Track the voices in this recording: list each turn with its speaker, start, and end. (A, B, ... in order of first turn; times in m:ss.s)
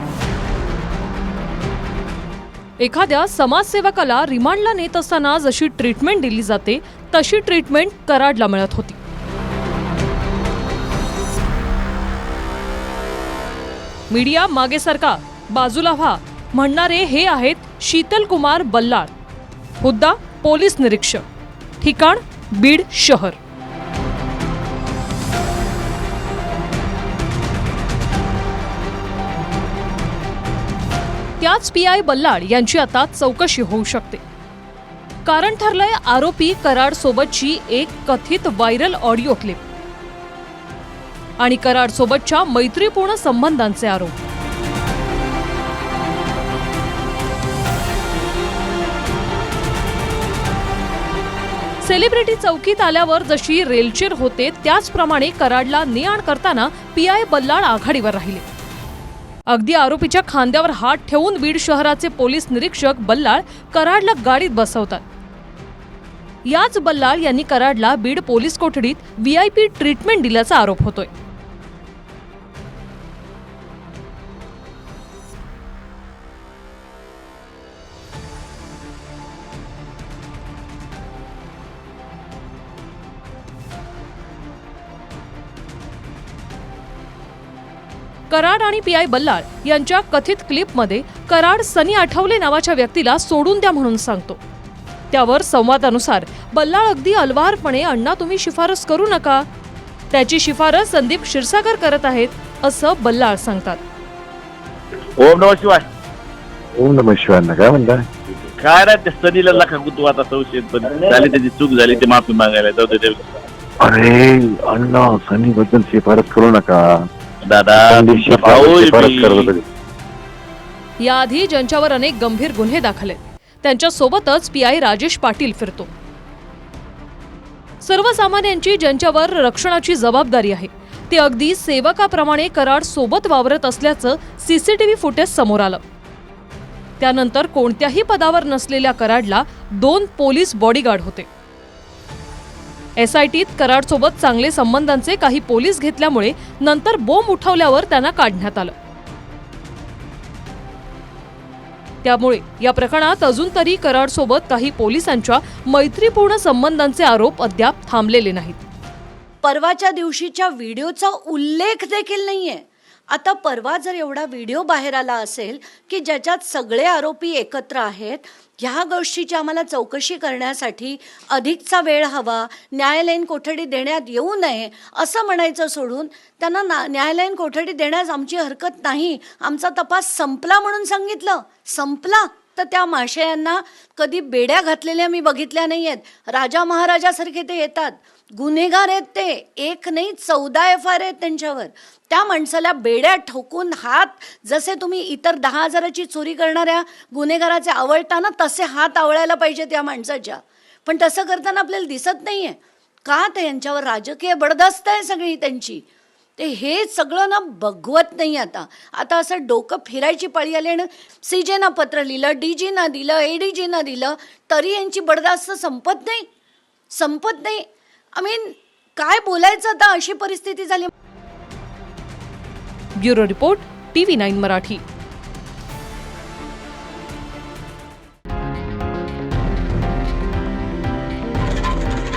0:02.8-0:09.0 A
0:14.1-0:19.1 A
0:19.8-0:21.2 A
0:21.8-0:23.4 A
0:31.4-0:34.2 A
0:35.2-0:39.6 A
0:41.4-0:44.1 A
0:51.8-0:58.4 A
0:59.5-1:05.0 A
1:06.5-1:11.1 A
1:28.3-1:34.4 A
1:35.1-1:39.5 A
1:40.1-1:43.8 A
1:45.2-1:45.9 B
1:46.8-1:48.1 C
1:48.6-1:53.2 B
1:53.8-1:57.1 C
1:57.4-1:59.4 B
1:57.7-1:59.6 C
2:01.0-2:05.9 A
2:07.8-2:15.8 A
2:17.0-2:21.3 A
2:23.0-2:28.7 A
2:32.0-2:38.6 A
2:39.4-3:25.8 D
3:26.4-3:36.3 D
3:36.9-3:40.9 D
3:43.0-3:44.8 A